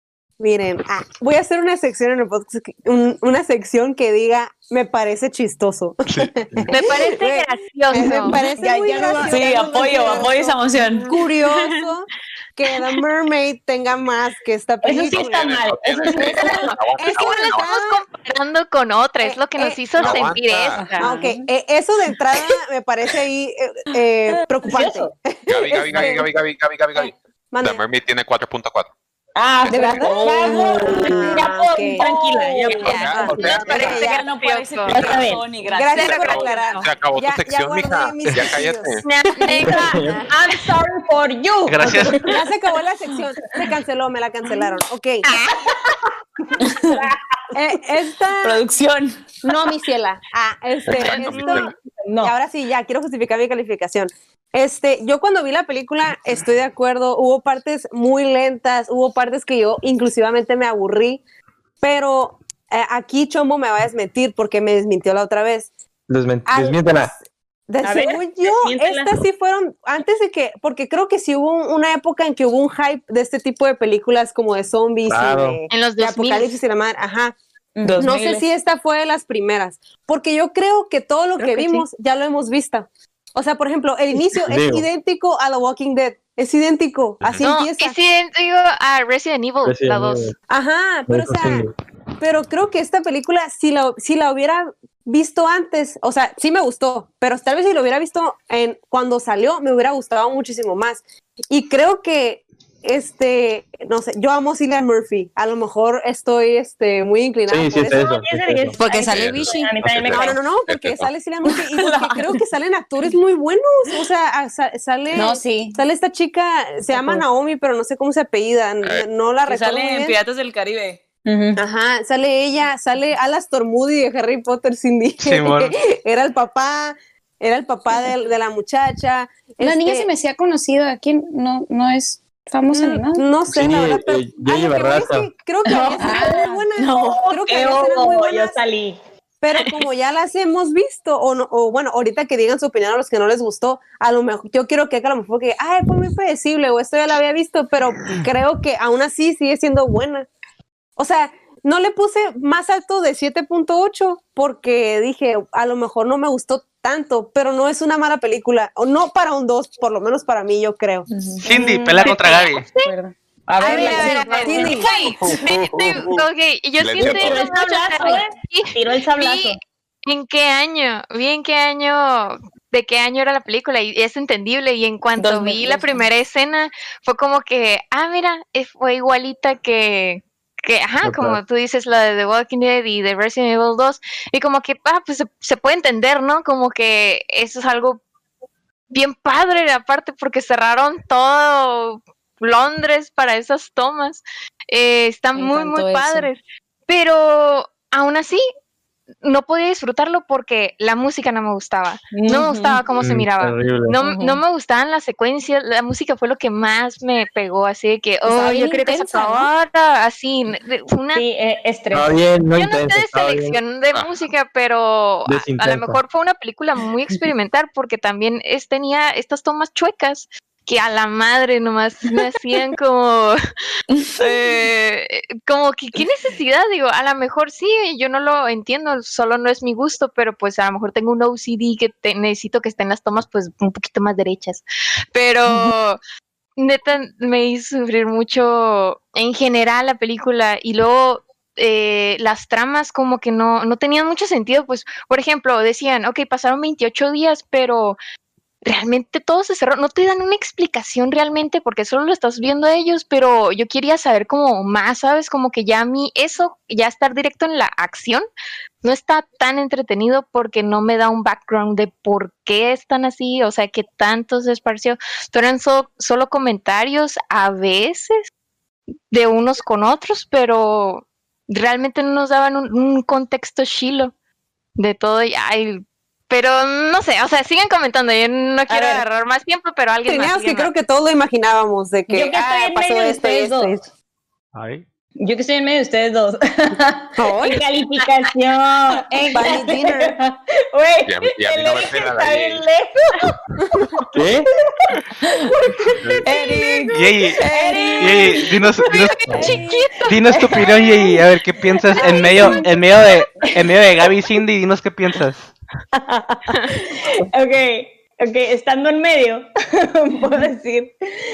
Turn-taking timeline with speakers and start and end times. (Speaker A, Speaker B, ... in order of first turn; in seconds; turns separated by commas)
Speaker A: 0.4-15.5, Speaker B: 6.7-8.5, Speaker C: 8.6-10.4, Speaker D: 9.3-11.1, Speaker C: 14.8-16.7, Speaker E: 15.0-17.7, Speaker B: 16.2-21.1, Speaker A: 16.9-18.0, Speaker A: 19.2-20.2, Speaker E: 19.9-20.9, Speaker F: 20.8-21.4, Speaker A: 21.0-26.3, Speaker C: 24.3-25.1, Speaker E: 25.5-28.9, Speaker A: 27.0-27.8, Speaker C: 29.4-34.1, Speaker A: 29.7-32.1, Speaker D: 30.0-31.5, Speaker D: 32.0-32.8, Speaker B: 32.7-35.2, Speaker A: 32.7-34.1, Speaker E: 32.9-33.9, Speaker D: 33.3-36.6, Speaker E: 34.9-35.2, Speaker C: 34.9-35.5, Speaker A: 35.6-39.1, Speaker B: 35.9-36.8, Speaker E: 36.8-39.0, Speaker B: 39.0-40.1, Speaker C: 39.5-42.4, Speaker A: 39.6-40.3, Speaker G: 39.6-40.2, Speaker H: 41.7-42.2, Speaker A: 42.3-45.3, Speaker C: 45.3-46.0, Speaker C: 46.5-47.2, Speaker D: 46.6-47.1, Speaker A: 47.5-48.6, Speaker D: 48.4-49.1, Speaker A: 49.4-51.7, Speaker E: 50.9-51.6, Speaker B: 50.9-51.7, Speaker C: 51.9-52.4, Speaker A: 52.2-61.2, Speaker A: 61.8-65.7, Speaker G: 66.1-67.1, Speaker A: 66.5-77.4, Speaker C: 67.8-69.2, Speaker G: 75.1-75.6, Speaker B: 75.7-76.6, Speaker C: 77.8-78.1, Speaker D: 77.8-78.5, Speaker A: 78.0-88.0, Speaker G: 84.3-84.9, Speaker B: 87.4-90.3, Speaker G: 89.6-90.4, Speaker A: 90.5-91.7, Speaker G: 91.1-91.8, Speaker A: 92.2-108.0, Speaker G: 107.5-108.8, Speaker C: 107.8-110.4, Speaker F: 108.8-109.8, Speaker E: 109.1-111.1, Speaker A: 110.1-120.2, Speaker D: 111.9-112.2, Speaker F: 115.2-115.8, Speaker F: 116.9-117.2, Speaker D: 119.5-121.0, Speaker C: 121.3-121.6, Speaker A: 121.6-130.1, Speaker H: 125.2-125.7, Speaker F: 129.6-133.2, Speaker A: 132.7-138.6, Speaker G: 133.5-135.3, Speaker C: 135.7-136.7, Speaker F: 136.0-136.5, Speaker D: 136.8-137.7, Speaker C: 137.3-139.0, Speaker A: 139.4-150.3, Speaker A: 151.0-161.1, Speaker C: 161.2-162.5, Speaker H: 161.4-162.7, Speaker B: 162.0-162.9, Speaker F: 162.8-163.1, Speaker C: 163.5-164.9, Speaker B: 163.6-188.0, Speaker A: 163.7-164.9, Speaker F: 163.7-164.1, Speaker G: 165.2-166.2, Speaker E: 166.8-167.5, Speaker C: 167.0-169.6, Speaker D: 175.2-176.0, Speaker G: 181.0-181.4, Speaker B: 188.9-198.4, Speaker F: 195.4-196.3, Speaker B: 199.2-211.2, Speaker C: 202.1-202.8, Speaker G: 203.0-204.0, Speaker C: 204.0-204.4, Speaker F: 208.3-209.5, Speaker C: 208.6-209.3, Speaker C: 211.2-212.2, Speaker G: 211.9-213.6, Speaker B: 212.6-223.4, Speaker G: 215.3-216.0, Speaker D: 223.9-224.7, Speaker B: 224.2-236.0, Speaker B: 236.6-248.0, Speaker B: 248.6-258.3, Speaker B: 258.8-268.2, Speaker B: 269.1-274.1, Speaker B: 274.8-280.7, Speaker C: 278.7-279.0, Speaker A: 280.1-283.9, Speaker C: 282.1-283.8, Speaker H: 284.5-284.9, Speaker C: 285.2-293.9, Speaker A: 287.2-287.6, Speaker A: 289.3-290.1, Speaker E: 291.1-292.7, Speaker G: 294.1-294.5, Speaker C: 294.8-301.1, Speaker D: 296.3-296.5, Speaker H: 296.9-297.4, Speaker A: 297.5-297.9, Speaker D: 297.5-298.1, Speaker H: 298.0-299.3, Speaker B: 299.0-300.1, Speaker G: 299.3-299.6, Speaker D: 299.3-299.8, Speaker H: 300.1-305.5, Speaker C: 301.9-302.7, Speaker C: 306.1-310.9